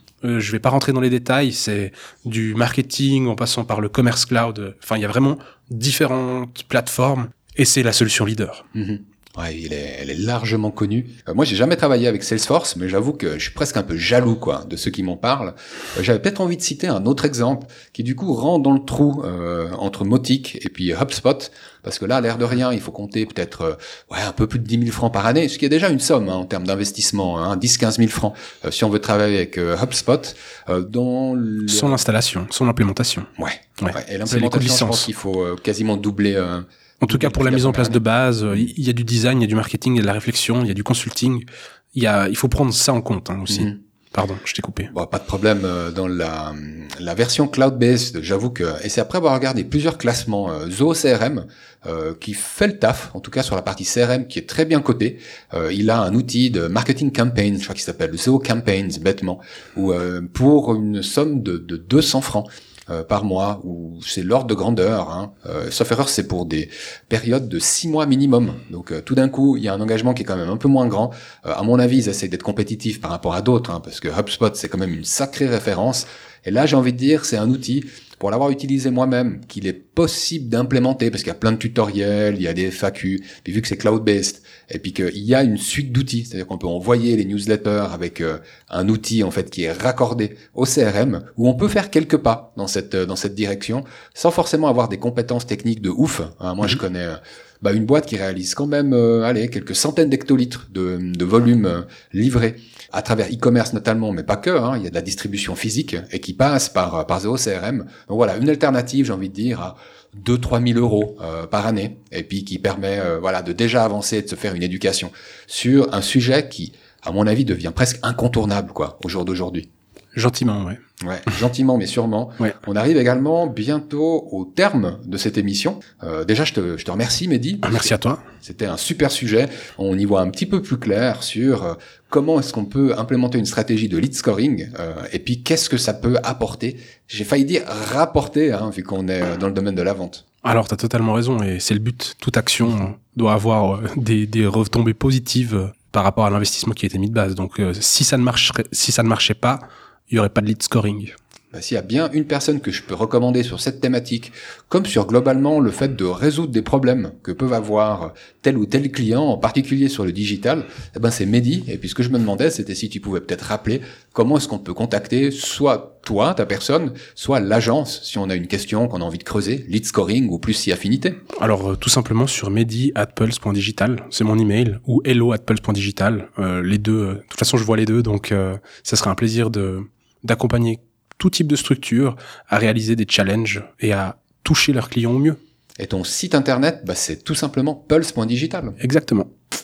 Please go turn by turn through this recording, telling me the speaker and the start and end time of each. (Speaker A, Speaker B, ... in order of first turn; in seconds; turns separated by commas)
Speaker A: 0.2-8.6, Speaker B: 8.7-32.0, Speaker A: 31.7-35.1, Speaker B: 33.4-38.0, Speaker A: 37.0-44.9, Speaker B: 43.5-43.7, Speaker B: 44.9-119.7, Speaker A: 120.1-120.8, Speaker B: 121.0-140.2, Speaker A: 127.6-128.2, Speaker A: 140.4-151.1, Speaker B: 151.5-171.2, Speaker A: 171.3-185.4, Speaker B: 185.8-188.8, Speaker A: 188.8-189.3